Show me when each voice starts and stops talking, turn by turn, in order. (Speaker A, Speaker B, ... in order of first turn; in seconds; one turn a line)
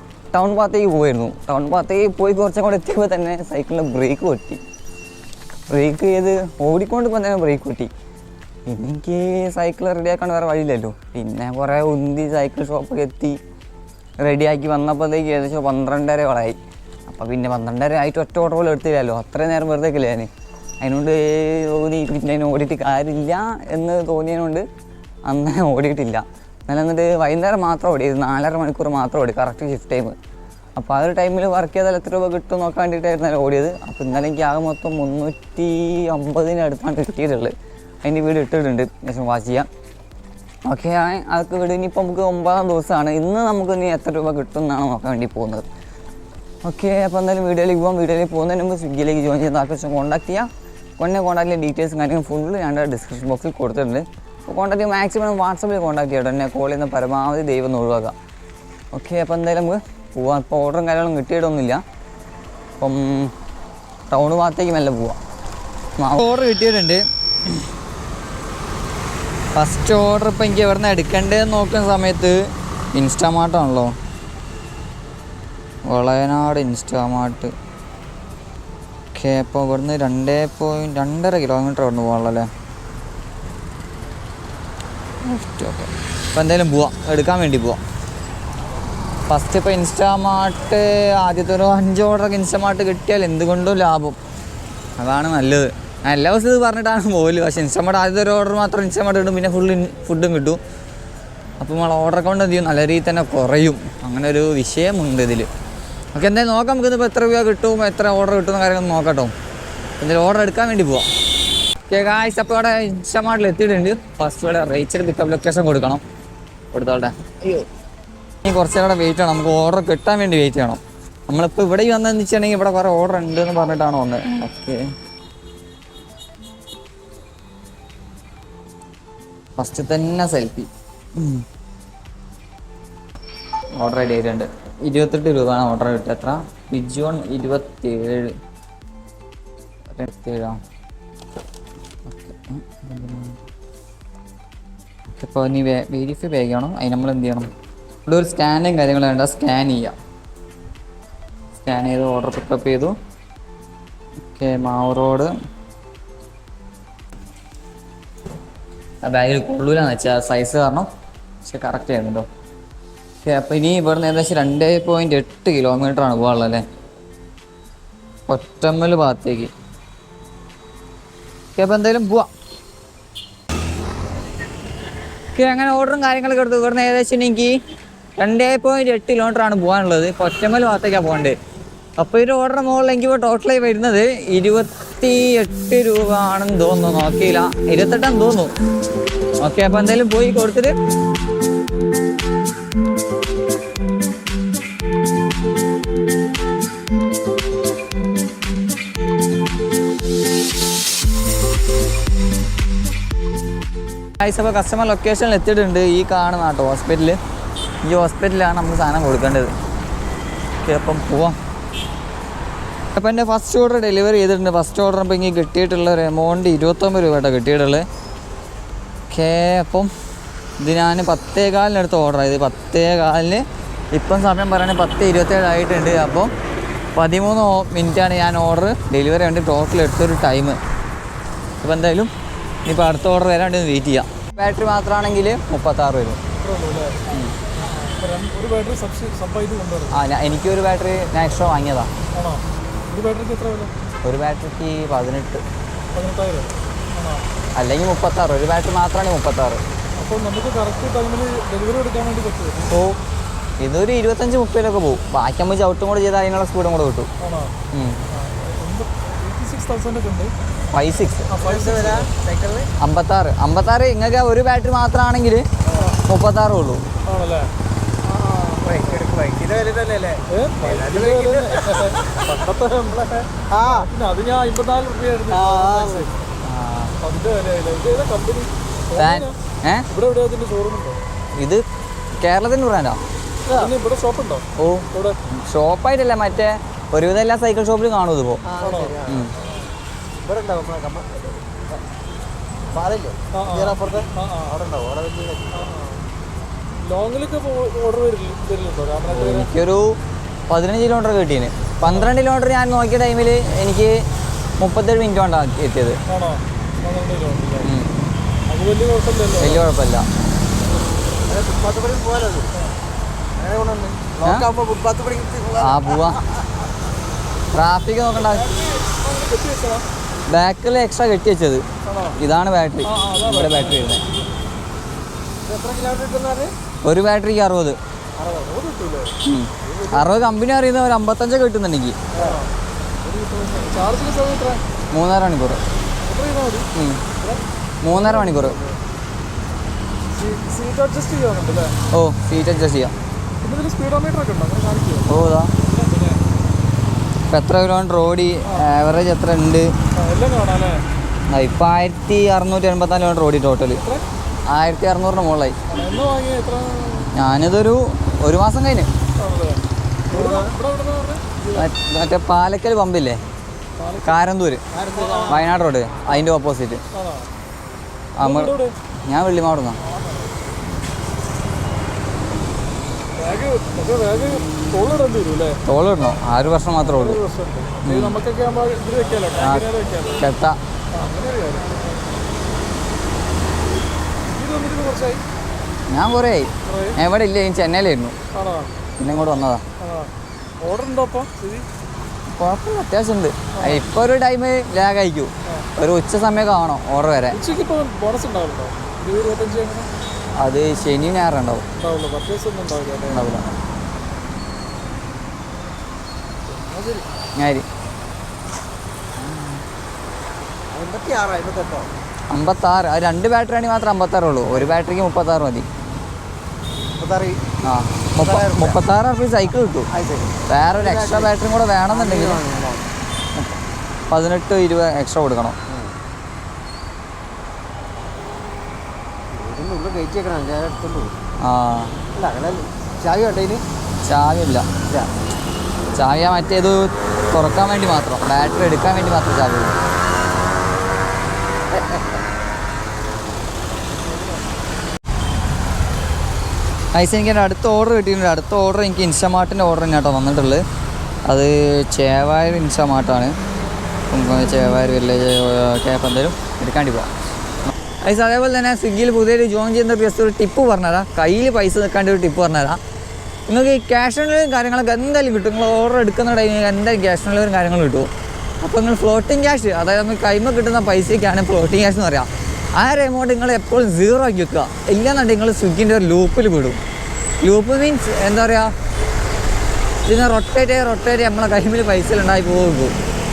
Speaker A: 0.3-4.6
Speaker A: 5.7-7.9
Speaker A: 8.7-13.4
Speaker A: 14.2-20.3
Speaker A: 20.8-24.6
Speaker A: 25.3-30.2
Speaker A: 30.8-39.7
Speaker A: 40.7-45.7
Speaker A: 46.6-58.1
Speaker A: 58.9-61.8
Speaker A: 62.8-63.3
Speaker A: 64.1-65.2
Speaker A: 66.0-67.7
Speaker A: 69.5-72.4
Speaker A: 72.9-73.9
Speaker A: 75.9-77.5
Speaker A: 79.1-82.5
Speaker A: 85.2-87.8
Speaker A: 89.3-94.2
Speaker A: 95.0-100.6
Speaker A: 101.6-105.5
Speaker A: 106.2-109.3
Speaker A: 110.0-111.0
Speaker A: 111.9-116.0
Speaker A: 116.7-117.7
Speaker A: 118.4-124.8
Speaker A: 129.6-131.4
Speaker A: 133.8-138.3
Speaker A: 139.9-140.6
Speaker A: 142.1-143.4
Speaker A: 145.2-147.5
Speaker A: 148.1-149.9
Speaker A: 151.6-152.9
Speaker A: 154.3-155.3
Speaker A: 159.0-160.9
Speaker A: 161.4-162.2
Speaker A: 163.2-166.6
Speaker A: 168.3-169.5
Speaker A: 171.6-172.3
Speaker A: 175.3-177.6
Speaker A: 178.2-181.3
Speaker A: 182.0-188.5
Speaker A: 189.4-190.7
Speaker A: 204.2-207.2
Speaker A: 207.8-209.5
Speaker A: 210.6-211.4
Speaker A: 212.9-217.8
Speaker A: 219.1-219.9
Speaker A: 220.6-226.3
Speaker A: 226.9-230.6
Speaker A: 231.6-232.1
Speaker A: 232.7-236.2
Speaker B: 236.4-237.0
Speaker A: 237.1-237.3
Speaker B: 237.6-240.0
Speaker A: 239.9-241.9
Speaker B: 242.2-243.7
Speaker A: 244.1-245.4
Speaker B: 245.9-247.2
Speaker A: 247.6-249.6
Speaker B: 250.0-252.7
Speaker A: 252.7-253.0
Speaker A: 253.6-257.1
Speaker B: 257.2-257.6
Speaker A: 257.7-258.0
Speaker B: 258.1-260.3
Speaker A: 260.7-261.3
Speaker B: 261.3-262.1
Speaker C: 261.4-262.7
Speaker A: 262.8-265.4
Speaker A: 266.0-266.8
Speaker B: 267.1-267.5
Speaker B: 268.1-269.0
Speaker C: 268.6-272.0
Speaker B: 270.3-276.1
Speaker C: 273.5-273.9
Speaker C: 275.3-276.1
Speaker A: 276.4-276.9
Speaker B: 277.0-279.3
Speaker A: 279.0-279.9
Speaker B: 279.9-281.0
Speaker A: 281.4-281.6
Speaker A: 282.2-283.0
Speaker C: 283.5-283.7
Speaker B: 283.5-285.2
Speaker A: 284.6-288.4
Speaker C: 288.4-289.3
Speaker B: 288.6-289.0
Speaker A: 289.1-289.3
Speaker C: 290.2-291.8
Speaker C: 292.7-295.7
Speaker B: 293.3-294.6
Speaker B: 295.5-296.0
Speaker B: 296.8-299.5
Speaker A: 299.1-299.9
Speaker A: 300.5-303.9
Speaker B: 301.8-302.1
Speaker A: 304.6-306.0
Speaker B: 306.1-307.7
Speaker A: 307.6-307.9
Speaker B: 308.5-309.7
Speaker A: 309.4-310.1
Speaker C: 311.2-312.5
Speaker C: 313.4-316.1
Speaker A: 315.6-316.2
Speaker A: 317.5-318.5
Speaker B: 318.2-319.9
Speaker A: 320.3-321.6
Speaker B: 321.9-322.2
Speaker A: 322.2-324.0
Speaker B: 322.9-324.0
Speaker C: 325.4-326.5
Speaker A: 326.8-327.8
Speaker C: 328.2-328.5
Speaker B: 328.5-329.1
Speaker A: 329.2-332.0
Speaker C: 329.6-330.1
Speaker B: 332.2-332.5
Speaker B: 333.1-334.6
Speaker A: 334.9-335.6
Speaker B: 336.0-336.7
Speaker A: 336.8-337.0
Speaker B: 337.2-338.7
Speaker A: 337.8-338.6
Speaker B: 340.1-341.8
Speaker A: 341.9-342.9
Speaker B: 343.4-345.1
Speaker A: 345.1-345.5
Speaker B: 345.6-346.2
Speaker A: 347.3-349.7
Speaker B: 350.0-350.8
Speaker A: 351.3-353.8
Speaker B: 353.8-354.1
Speaker A: 354.5-355.6
Speaker B: 355.7-357.1
Speaker A: 357.1-358.9
Speaker B: 359.2-361.7
Speaker C: 360.1-360.6
Speaker A: 361.5-363.2
Speaker B: 363.8-364.2
Speaker A: 364.0-364.6
Speaker C: 364.7-365.5
Speaker B: 364.9-365.4
Speaker A: 365.3-366.8
Speaker B: 366.9-367.3
Speaker A: 368.2-369.8
Speaker B: 368.2-368.8
Speaker B: 373.2-375.6
Speaker A: 375.6-377.2
Speaker B: 376.8-380.3
Speaker A: 377.8-378.2
Speaker A: 379.4-380.6
Speaker B: 380.9-381.9
Speaker B: 384.3-385.2
Speaker A: 385.9-388.2
Speaker B: 386.6-387.0
Speaker B: 388.3-388.8
Speaker A: 389.0-389.6
Speaker B: 389.8-391.7
Speaker A: 392.3-397.4
Speaker B: 393.6-393.9
Speaker B: 397.3-399.9
Speaker A: 400.4-401.6
Speaker B: 401.8-403.3
Speaker A: 403.1-403.5
Speaker B: 406.5-407.1
Speaker A: 407.4-407.7
Speaker A: 409.2-409.6
Speaker C: 410.7-411.9
Speaker A: 412.3-415.7
Speaker C: 417.0-417.4
Speaker A: 417.6-419.9
Speaker C: 418.2-418.8
Speaker C: 419.9-421.3
Speaker A: 420.5-422.4
Speaker C: 421.9-422.9
Speaker A: 424.1-425.6
Speaker C: 425.7-425.9
Speaker C: 429.3-431.2
Speaker A: 431.4-432.0
Speaker C: 432.1-433.6
Speaker A: 434.1-435.1
Speaker A: 436.0-439.8
Speaker C: 441.8-442.0
Speaker A: 446.9-450.6
Speaker A: 451.3-453.3
Speaker A: 454.1-457.1
Speaker A: 458.0-462.8
Speaker A: 463.5-468.1
Speaker A: 468.6-476.8
Speaker A: 477.4-478.7
Speaker A: 480.0-482.9